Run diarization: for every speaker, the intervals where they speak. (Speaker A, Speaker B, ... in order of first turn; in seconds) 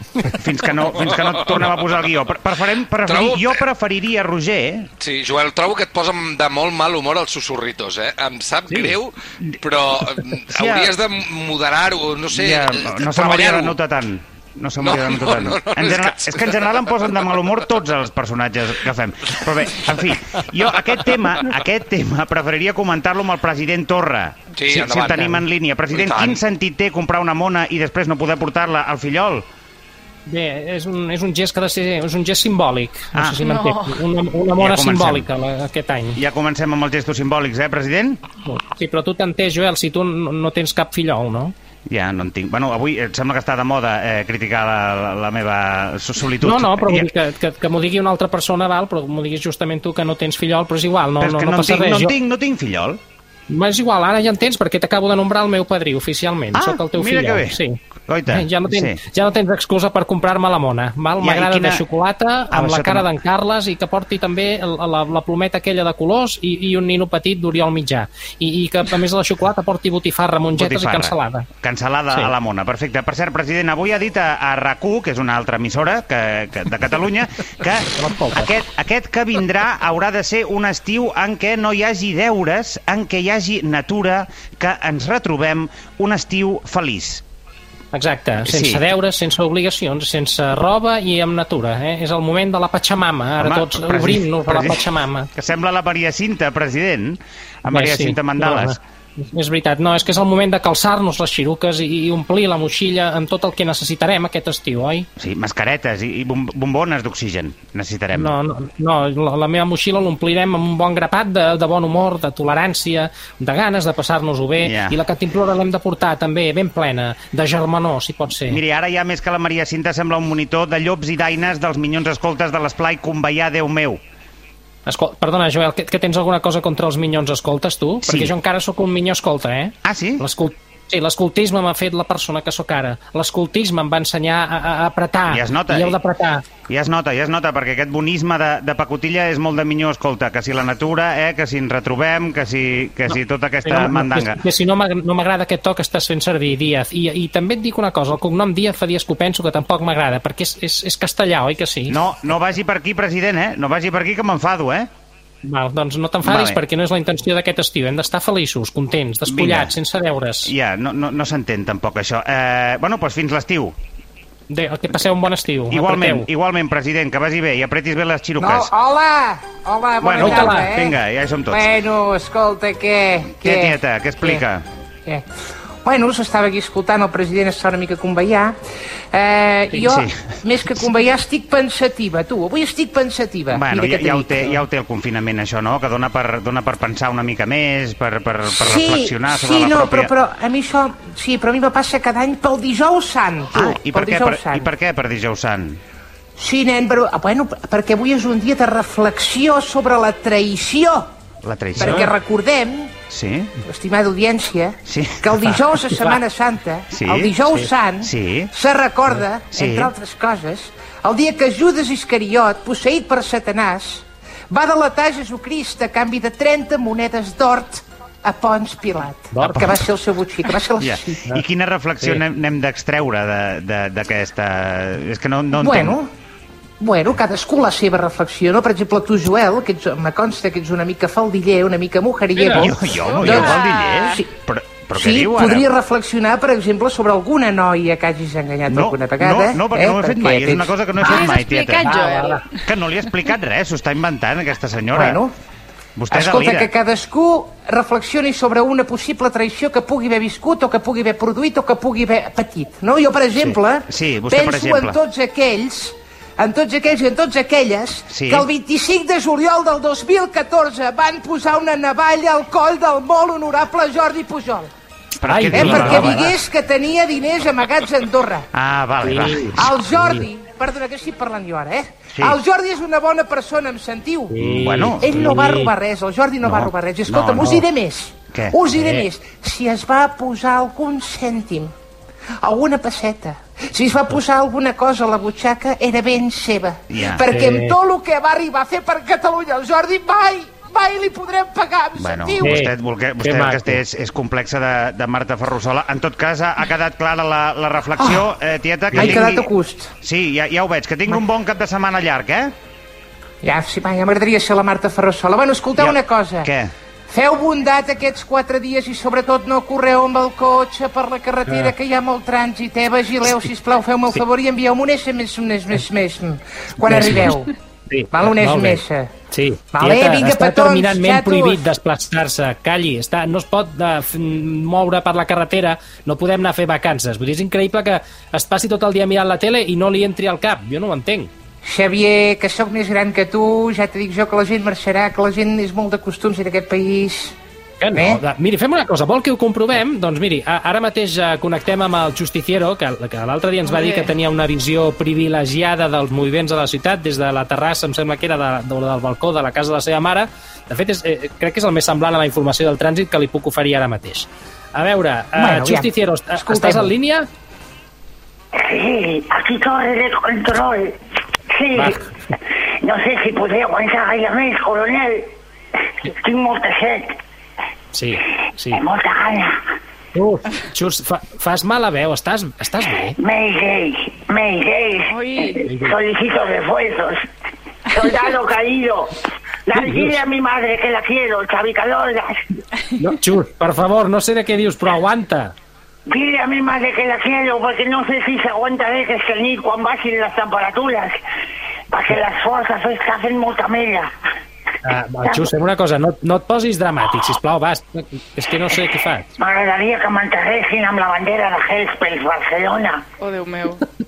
Speaker A: 0.2-4.9, 10.5-10.9, 12.3-29.4, 33.1-33.4, 34.6-35.3, 36.1-38.2, 41.9-47.1, 51.2-53.0, 56.5-59.0, 61.2-61.8, 62.5-63.1, 70.5-87.2, 88.4-88.8, 93.4-98.8, 105.2-108.3, 114.6-115.0, 118.5-124.0, 128.0-128.3, 129.8-130.2, 135.3-135.9, 136.7-144.4, 151.9-154.9, 156.2-156.6, 159.3-159.7, 160.4-163.7, 165.7-168.7, 170.0-171.7, 173.4-174.6, 179.8-180.2, 183.5-190.1, 193.5-195.8, 201.4-202.1, 203.1-203.5, 204.8-205.2, 206.9-207.3, 208.0-208.5, 209.5-209.9, 220.8-226.0, 232.5-235.7, 238.7-241.8, 242.7-245.2, 246.0-246.7, 253.3-254.9, 258.1-258.4, 265.2-266.2, 268.5-269.7, 274.4-275.1, 276.4-277.6, 286.9-287.2, 292.0-299.5, 300.0-302.5, 305.8-306.7
Speaker B: 1.0-2.2, 3.0-3.6, 5.0-13.8, 14.8-17.7, 24.5-26.4
Speaker C: 30.3-36.2, 38.4-41.5, 46.4-52.1, 53.5-57.8, 58.3-71.5, 77.9-78.5, 87.9-95.3, 97.7-105.1, 108.1-118.6, 124.8-136.4, 143.6-152.0, 155.4-160.5, 164.5-166.3, 170.2-170.7, 201.8-202.1, 219.3-219.7, 232.3-232.7, 241.8-242.4, 265.2-266.3, 269.0-270.2, 274.3-275.7, 278.7-279.1, 287.3-287.8, 292.4-293.8, 298.9-299.2, 311.5-311.7, 316.8-317.3, 317.9-331.3, 337.8-357.2, 361.7-362.0, 367.9-368.8, 370.1-373.2, 375.6-375.9, 379.7-380.2, 383.0-385.5, 394.8-399.3
Speaker D: 33.4-34.0, 233.2-234.2, 241.0-242.6, 375.1-375.6, 403.2-403.8
Speaker E: 168.4-170.9, 171.5-174.4, 175.8-178.6, 179.1-184.6, 188.5-194.7, 196.4-201.1, 201.8-202.9, 203.7-221.2, 225.6-226.1, 226.8-234.3, 234.9-241.3, 244.9-245.3, 246.1-264.7, 265.5-268.5, 269.6-274.3, 275.0-281.7, 282.4-292.6, 298.0-298.2, 298.9-299.9, 303.4-306.5, 307.1-317.5, 318.1-319.1, 319.7-321.6, 331.6-337.3, 337.9-338.2, 355.4-356.9
Speaker F: 358.5-360.9, 361.5-362.0, 362.8-365.3, 366.0-367.2, 368.7-369.6, 373.2-377.3, 377.9-382.4, 386.1-391.2, 391.9-394.1, 395.2-395.5, 399.4-403.1